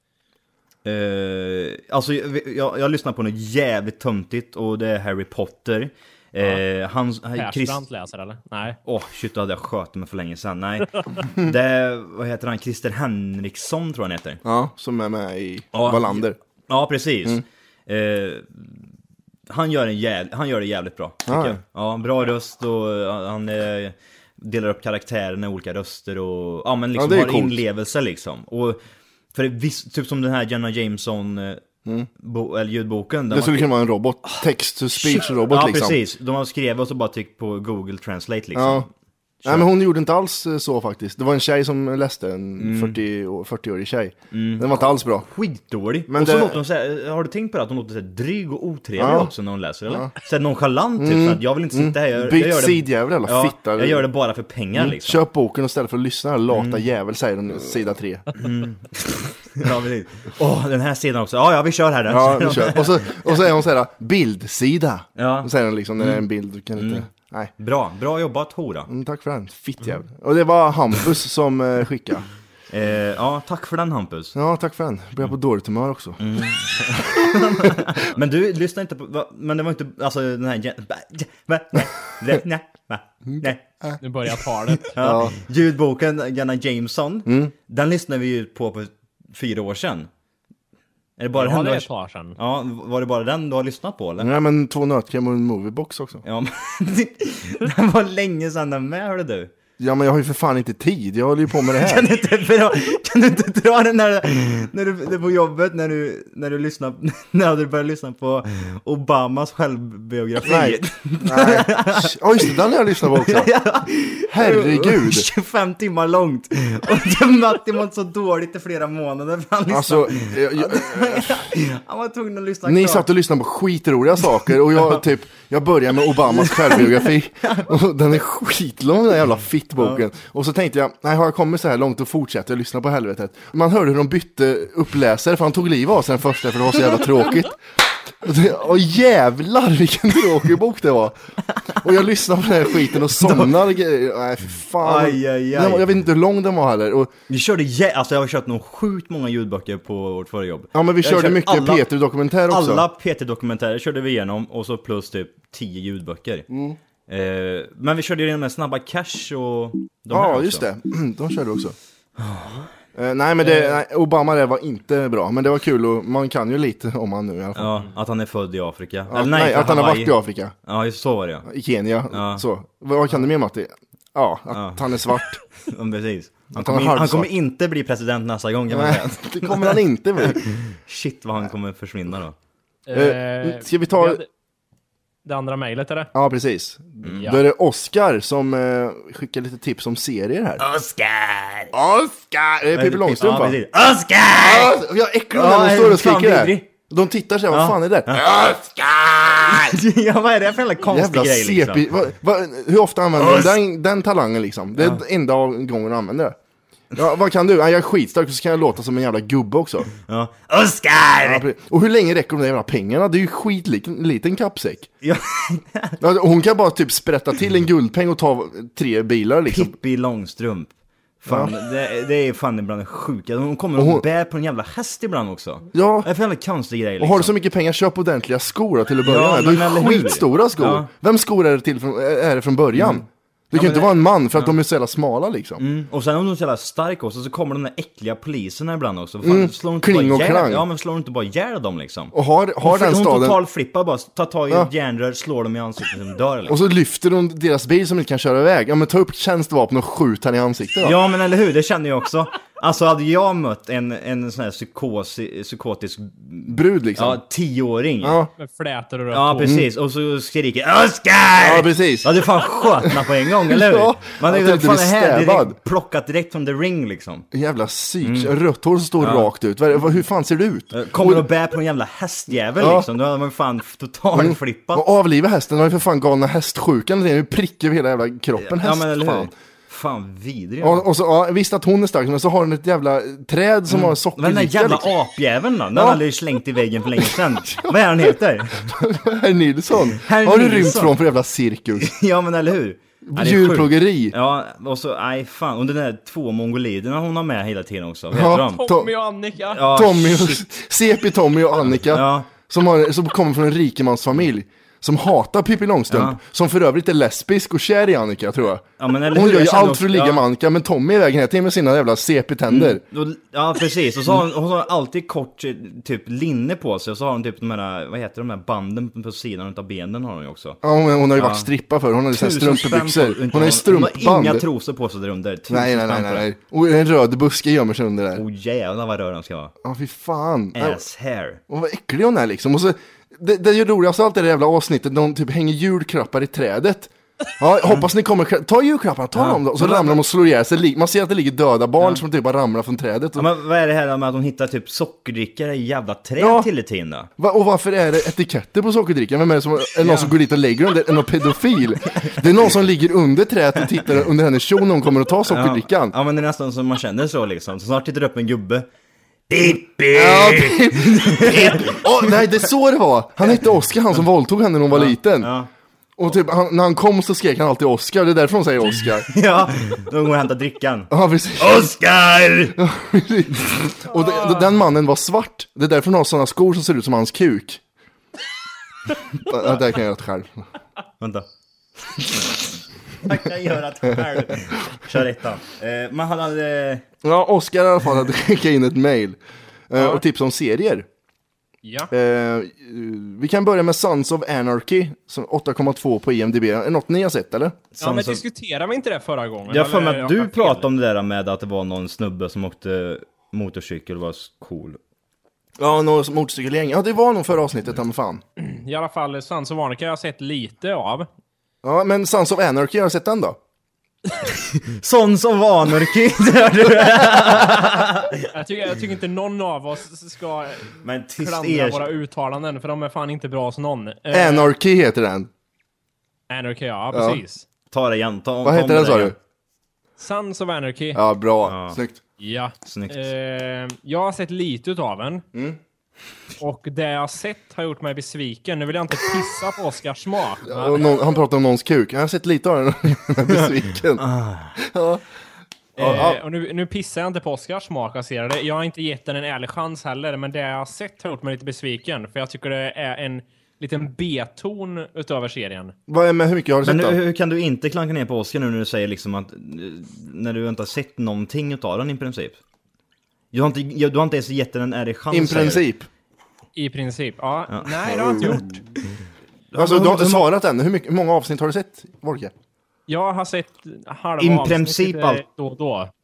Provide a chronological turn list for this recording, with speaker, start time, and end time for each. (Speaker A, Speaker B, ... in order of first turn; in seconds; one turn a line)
Speaker A: 0.8-7.8
Speaker B: 7.4-8.8
Speaker A: 8.9-14.4
Speaker C: 14.4-16.4
Speaker A: 15.7-18.8
Speaker A: 19.5-28.8
Speaker C: 21.3-21.6
Speaker C: 26.9-27.6
Speaker A: 29.3-31.6
Speaker A: 32.2-33.7
Speaker C: 33.3-36.0
Speaker A: 35.0-38.9
Speaker C: 38.5-38.9
Speaker A: 39.4-39.7
Speaker C: 39.5-45.3
Speaker A: 42.6-43.0
Speaker A: 44.3-55.2
Speaker C: 46.1-46.6
Speaker C: 49.0-49.3
Speaker C: 51.0-54.0
Speaker C: 54.8-58.3
Speaker A: 56.5-56.8
Speaker A: 58.4-63.4
Speaker C: 62.1-67.5
Speaker A: 65.2-67.0
Speaker A: 67.6-68.9
Speaker C: 68.9-72.2
Speaker A: 72.7-74.3
Speaker C: 74.3-76.2
Speaker A: 76.2-83.6
Speaker C: 76.9-77.8
Speaker C: 83.4-84.0
Speaker B: 84.0-85.0
Speaker A: 85.0-90.1
Speaker C: 85.0-85.3
Speaker C: 87.3-87.5
Speaker A: 91.2-94.3
Speaker B: 91.3-92.4
Speaker C: 94.2-96.2
Speaker A: 96.2-99.5
Speaker C: 99.8-102.1
Speaker A: 101.8-112.5
Speaker C: 110.4-113.5
Speaker A: 113.1-123.1
Speaker C: 114.3-115.3
Speaker C: 119.7-121.5
Speaker C: 122.6-137.6
Speaker A: 126.3-127.7
Speaker C: 138.2-141.2
Speaker C: 141.8-147.1
Speaker A: 142.9-143.6
Speaker A: 144.8-145.9
Speaker A: 147.3-151.9
Speaker C: 150.7-152.8
Speaker A: 152.5-156.5
Speaker C: 156.5-156.8
Speaker A: 157.1-160.6
Speaker C: 160.1-161.8
Speaker A: 162.2-162.7
Speaker C: 162.9-167.8
Speaker A: 167.6-171.5
Speaker C: 169.1-170.5
Speaker C: 171.5-175.4
Speaker A: 172.1-172.4
Speaker A: 174.5-182.4
Speaker C: 176.5-177.3
Speaker C: 178.7-180.4
Speaker B: 182.9-184.3
Speaker C: 182.9-184.2
Speaker B: 185.2-186.1
Speaker C: 186.1-190.6
Speaker A: 187.1-187.3
Speaker A: 190.6-191.8
Speaker C: 191.7-193.6
Speaker A: 192.7-194.8
Speaker C: 194.3-198.6
Speaker A: 195.3-196.7
Speaker A: 197.5-201.9
Speaker C: 199.4-199.7
Speaker C: 200.9-206.4
Speaker A: 203.2-203.5
Speaker A: 204.8-205.0
Speaker C: 206.9-209.9
Speaker A: 210.1-211.5
Speaker C: 211.2-214.9
Speaker A: 215.0-216.0
Speaker C: 216.0-219.8
Speaker A: 219.5-227.3
Speaker C: 221.3-221.5
Speaker C: 223.8-224.1
Speaker C: 225.7-226.1
Speaker C: 227.0-235.6
Speaker A: 229.1-230.9
Speaker A: 232.8-234.6
Speaker A: 235.6-246.6
Speaker C: 239.2-240.7
Speaker C: 242.1-243.4
Speaker C: 246.5-251.0
Speaker A: 250.8-258.2
Speaker C: 256.5-257.2
Speaker C: 258.0-258.3
Speaker B: 258.4-259.6
Speaker A: 259.1-267.3
Speaker C: 259.4-259.7
Speaker C: 261.4-262.1
Speaker C: 262.8-265.6
Speaker C: 267.3-271.3
Speaker A: 268.0-268.3
Speaker A: 269.0-269.3
Speaker A: 270.7-274.9
Speaker C: 272.6-272.9
Speaker C: 274.1-279.3
Speaker A: 278.4-280.9
Speaker C: 280.6-284.9
Speaker A: 283.7-288.8
Speaker C: 285.7-286.0
Speaker C: 288.6-291.9
Speaker A: 290.0-291.0
Speaker A: 291.8-298.6
Speaker C: 293.1-294.1
Speaker C: 298.1-298.9
Speaker B: 298.4-299.6
Speaker A: 299.5-300.4
Speaker C: 299.7-312.8
Speaker A: 301.8-302.3
Speaker A: 305.9-306.2
Speaker A: 308.8-310.2
Speaker A: 312.5-320.6
Speaker C: 320.6-324.5
Speaker A: 321.1-321.5
Speaker A: 322.1-326.3
Speaker C: 325.5-328.2
Speaker A: 328.1-329.5
Speaker C: 329.6-330.8
Speaker A: 330.6-331.4
Speaker C: 331.5-343.3
Speaker A: 339.1-340.0
Speaker A: 343.1-347.1
Speaker C: 346.2-346.5
Speaker C: 347.2-356.0
Speaker A: 349.8-350.1
Speaker A: 352.0-352.3
Speaker A: 355.3-358.6
Speaker A: 359.3-362.3
Speaker C: 359.9-365.3
Speaker A: 364.7-365.5
Speaker C: 366.0-369.1
Speaker A: 369.1-372.6
Speaker C: 370.9-371.7
Speaker C: 372.6-377.6
Speaker C: 379.3-380.5
Speaker A: 381.0-381.3
Speaker A: 383.0-386.9
Speaker C: 387.0-389.2
Speaker C: 389.7-390.9
Speaker B: 389.8-390.0
Speaker B: 391.6-391.9
Speaker C: 391.9-397.6
Speaker A: 397.7-398.2
Speaker B: 397.8-400.6
Speaker A: 399.5-404.8
Speaker C: 405.6-408.2
Speaker B: 408.4-411.1
Speaker C: 411.6-413.4
Speaker A: 414.3-418.3
Speaker B: 418.3-424.5
Speaker A: 420.8-421.9
Speaker C: 424.1-425.3
Speaker B: 426.3-427.4
Speaker C: 426.9-427.2
Speaker A: 427.7-429.1
Speaker C: 428.4-429.1
Speaker B: 430.0-431.0
Speaker C: 430.9-432.0
Speaker A: 431.4-431.8
Speaker B: 432.2-435.2
Speaker A: 432.6-433.1
Speaker B: 436.4-440.8
Speaker C: 440.4-444.0
Speaker A: 444.0-444.6
Speaker C: 444.6-445.0
Speaker B: 445.8-455.7
Speaker C: 445.8-446.2
Speaker A: 445.8-446.1
Speaker C: 455.9-457.0
Speaker A: 456.6-462.4
Speaker A: 463.3-465.6
Speaker C: 465.1-465.9
Speaker B: 466.6-468.6
Speaker A: 467.5-468.4
Speaker C: 467.9-468.4
Speaker A: 469.5-470.3
Speaker C: 469.6-472.3
Speaker B: 472.9-475.9
Speaker A: 474.2-475.2